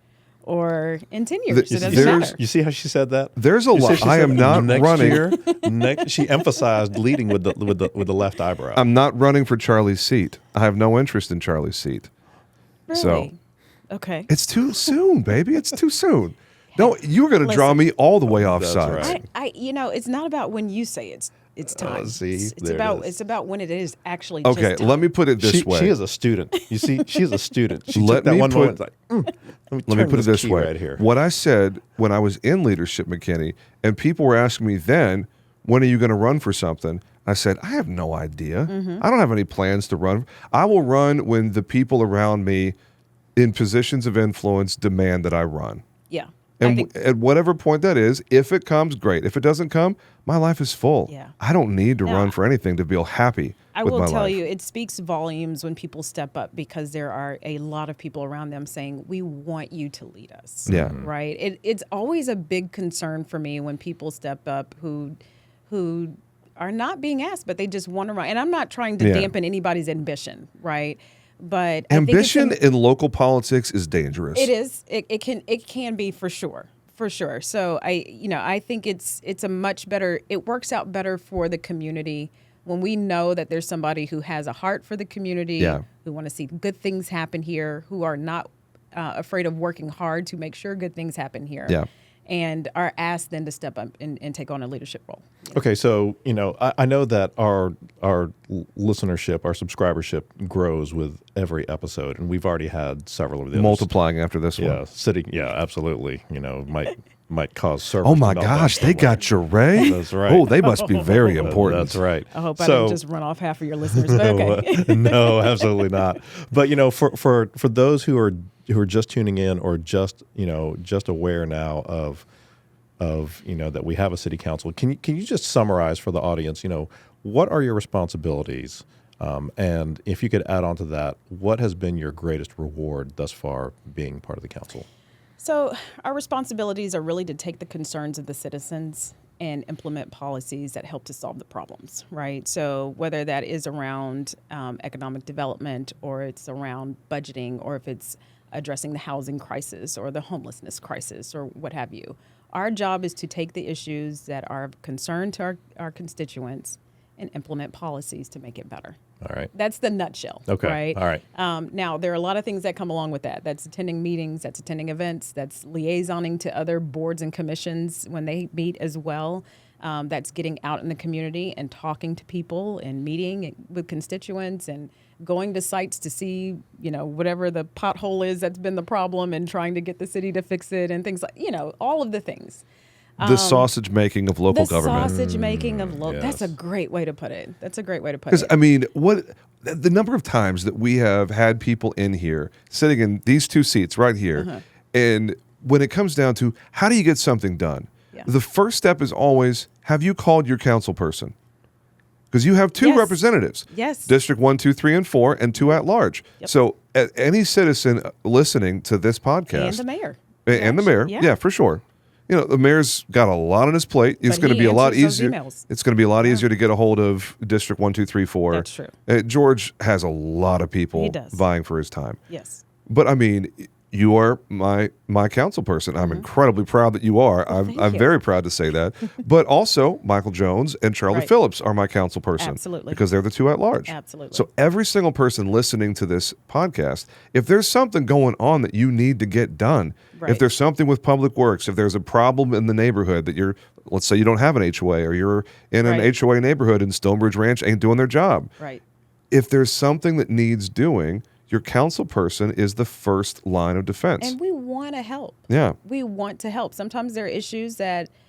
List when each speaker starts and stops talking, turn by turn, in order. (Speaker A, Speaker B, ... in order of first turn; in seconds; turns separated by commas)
Speaker A: 0.4-2.4, Speaker B: 1.5-2.3, Speaker C: 1.7-8.9, Speaker B: 3.4-5.4, Speaker A: 5.4-5.7, Speaker B: 8.7-12.1, Speaker A: 12.9-13.3, Speaker B: 12.9-13.3, Speaker A: 13.9-14.3, Speaker B: 14.3-19.2, Speaker A: 16.7-17.9, Speaker C: 18.3-19.2, Speaker A: 19.0-25.0, Speaker C: 21.7-23.2, Speaker B: 24.4-25.9, Speaker C: 25.4-31.0, Speaker A: 26.6-27.4, Speaker B: 27.9-28.8, Speaker B: 29.9-42.8, Speaker A: 38.7-39.0, Speaker B: 43.4-45.8, Speaker A: 46.1-46.9, Speaker B: 46.6-54.4, Speaker A: 51.1-51.3, Speaker A: 52.0-52.4, Speaker A: 53.7-72.6, Speaker B: 60.7-61.0, Speaker C: 60.7-61.1, Speaker B: 69.0-69.3, Speaker B: 71.9-74.5, Speaker A: 74.3-95.6, Speaker B: 85.6-85.8, Speaker C: 95.5-103.9, Speaker B: 103.5-104.8, Speaker C: 104.5-110.5, Speaker B: 108.0-112.0, Speaker A: 110.5-111.6, Speaker C: 111.4-113.0, Speaker A: 112.3-116.0, Speaker C: 113.9-122.2, Speaker C: 123.0-134.8, Speaker A: 135.4-159.0, Speaker C: 159.2-159.5, Speaker A: 159.5-182.6, Speaker C: 160.5-161.2, Speaker A: 183.2-183.7, Speaker B: 183.2-185.1, Speaker A: 184.5-188.5, Speaker C: 185.0-186.5, Speaker B: 188.3-201.3, Speaker A: 194.3-194.6, Speaker B: 202.3-209.8, Speaker A: 202.8-204.1, Speaker A: 209.5-211.3, Speaker B: 210.4-222.2, Speaker A: 214.2-215.7, Speaker A: 216.2-216.4, Speaker A: 218.5-218.9, Speaker A: 220.9-221.4, Speaker A: 222.3-222.6, Speaker B: 222.9-248.5, Speaker A: 226.0-226.2, Speaker A: 227.5-228.1, Speaker A: 232.4-233.0, Speaker A: 233.8-234.5, Speaker A: 240.1-240.4, Speaker A: 245.8-246.1, Speaker B: 249.3-254.4, Speaker A: 254.2-258.1, Speaker B: 255.5-255.8